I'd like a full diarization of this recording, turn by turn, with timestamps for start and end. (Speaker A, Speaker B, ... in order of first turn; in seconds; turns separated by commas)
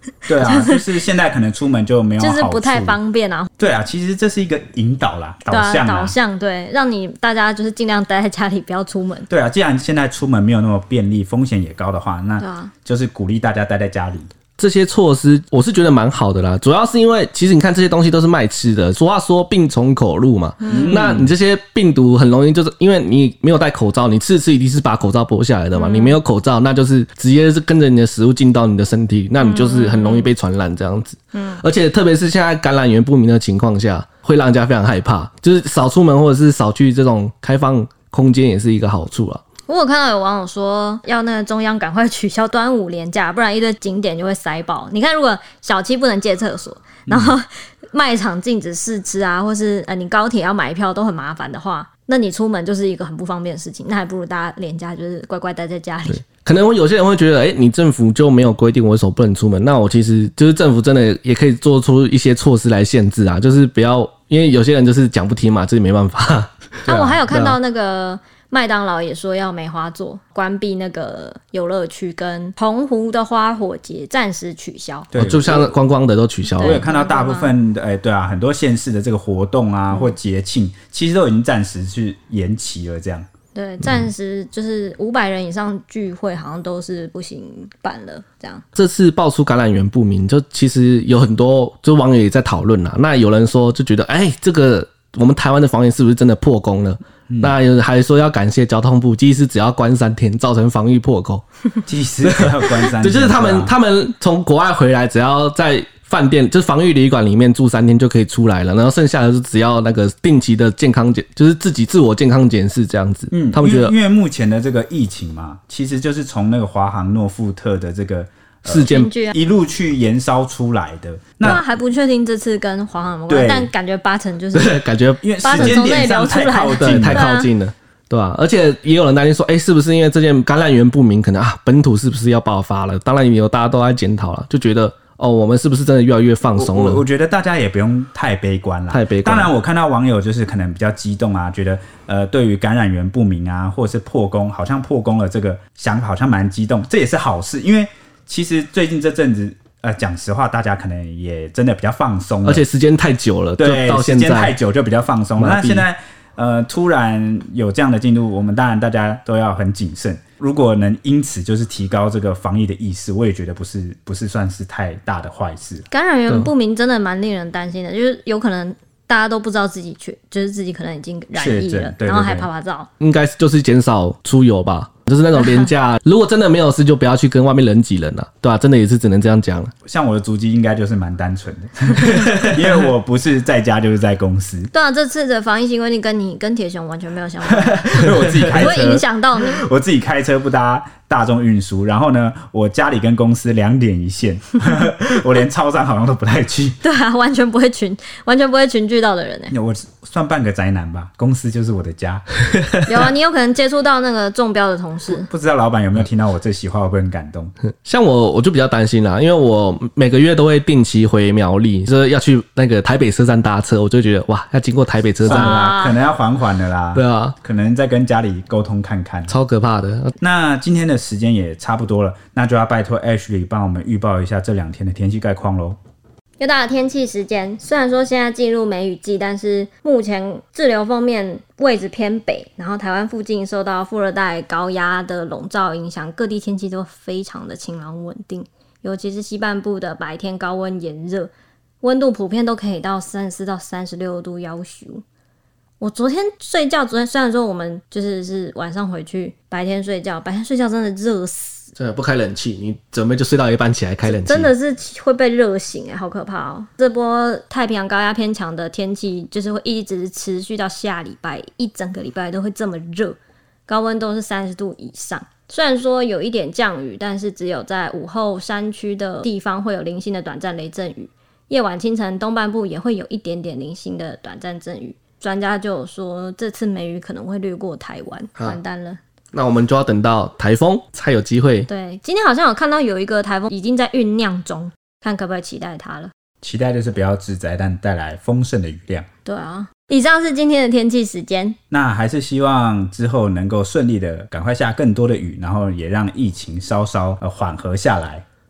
Speaker A: 0.2-0.8, Speaker B: 0.3-3.0, Speaker A: 2.2-3.5, Speaker B: 3.6-6.1, Speaker A: 5.5-9.3, Speaker B: 9.3-14.3, Speaker A: 12.4-12.7, Speaker C: 14.6-39.4, Speaker A: 20.6-21.0, Speaker B: 20.7-21.3, Speaker A: 25.7-26.2, Speaker A: 29.4-30.3, Speaker A: 31.3-31.6, Speaker A: 39.7-56.2, Speaker B: 47.1-47.3, Speaker C: 56.1-67.6, Speaker B: 66.8-67.2, Speaker A: 66.8-75.1, Speaker B: 75.1-75.7, Speaker C: 75.1-76.8, Speaker A: 76.6-77.5, Speaker B: 76.6-83.2, Speaker A: 83.5-88.6, Speaker C: 88.7-101.4, Speaker B: 97.3-97.5, Speaker B: 101.8-103.7, Speaker C: 102.2-113.9, Speaker B: 113.3-121.6, Speaker C: 118.7-119.1, Speaker A: 118.8-119.3, Speaker A: 121.4-124.8, Speaker B: 123.3-123.7, Speaker C: 124.5-125.9, Speaker B: 125.2-127.3, Speaker A: 125.4-127.5, Speaker C: 126.8-137.0, Speaker B: 136.6-152.6, Speaker C: 138.9-139.5, Speaker C: 152.4-154.5, Speaker B: 153.6-165.8, Speaker C: 155.4-155.9, Speaker A: 165.9-172.9, Speaker B: 171.3-172.5, Speaker C: 173.0-179.7, Speaker A: 175.4-175.7, Speaker B: 179.8-184.7, Speaker A: 184.7-189.6, Speaker B: 187.5-196.8, Speaker A: 196.8-199.5, Speaker B: 199.5-202.5, Speaker A: 202.8-205.3, Speaker B: 205.1-207.5, Speaker C: 207.8-215.5, Speaker B: 215.2-219.3, Speaker A: 215.2-216.0, Speaker C: 216.9-217.3, Speaker C: 219.3-220.1, Speaker B: 220.2-225.8, Speaker A: 226.4-245.0, Speaker A: 245.8-251.7, Speaker C: 251.8-254.5, Speaker A: 254.0-279.0, Speaker C: 279.3-281.7, Speaker A: 281.7-286.1, Speaker B: 286.4-289.1, Speaker A: 289.2-291.6, Speaker B: 291.7-298.2